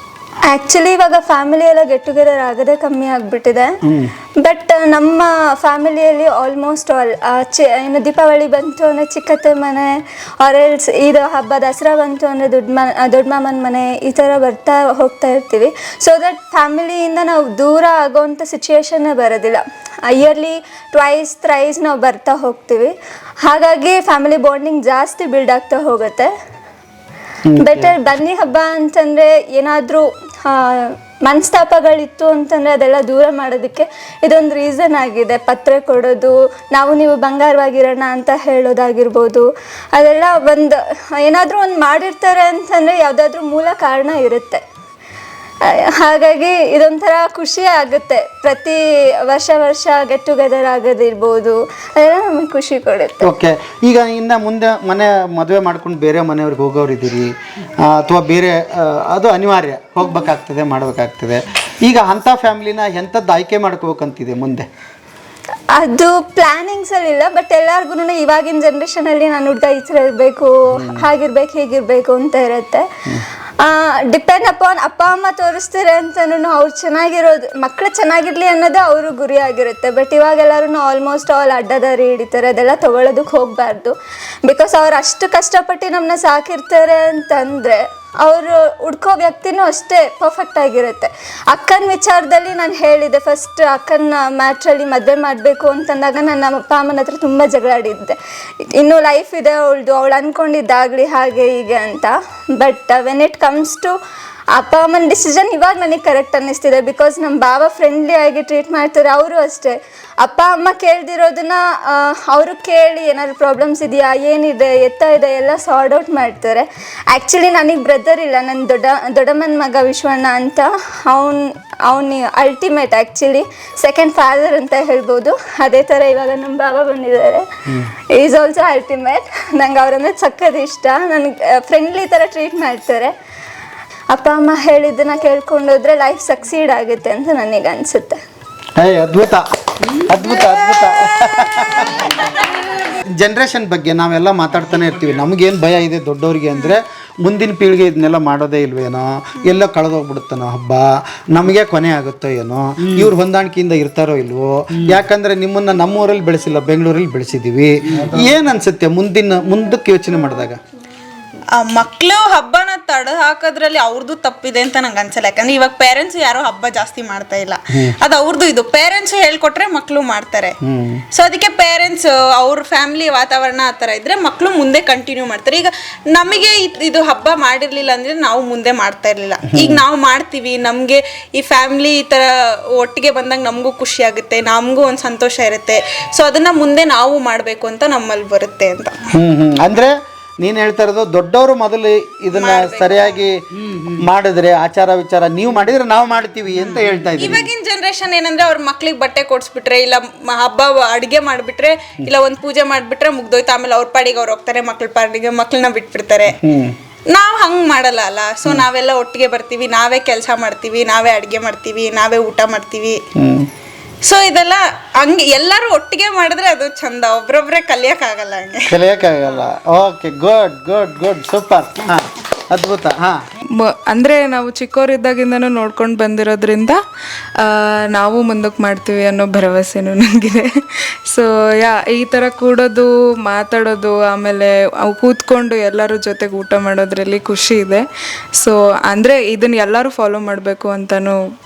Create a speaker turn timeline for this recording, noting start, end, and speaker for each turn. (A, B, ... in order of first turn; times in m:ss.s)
0:00.5-0:03.7 A
0:03.8-0:04.1 B
0:04.4-0:22.9 A
0:23.4-0:26.3 A
0:27.5-0:27.9 B
0:27.6-0:44.6 A
0:45.6-0:53.3 A
0:53.2-1:04.7 B
1:05.8-1:23.9 A
1:10.7-1:11.1 B
1:24.5-1:38.2 A
1:38.8-1:44.0 A
1:44.6-2:07.5 A
2:08.1-2:13.1 A
2:14.1-2:18.2 A
2:18.8-2:22.4 B
2:23.1-2:40.6 B
2:41.6-2:50.6 C
2:50.6-2:51.0 B
2:51.1-3:09.0 C
2:59.5-2:59.8 B
3:09.1-3:17.5 B
3:12.3-3:13.2 C
3:17.2-3:26.4 C
3:26.4-3:26.8 B
3:27.1-3:33.0 C
3:33.2-3:33.5 B
3:34.0-3:38.7 C
3:38.7-3:43.2 B
3:43.6-3:46.8 D
3:47.4-3:50.5 D
3:51.1-3:57.8 D
3:58.4-4:01.2 D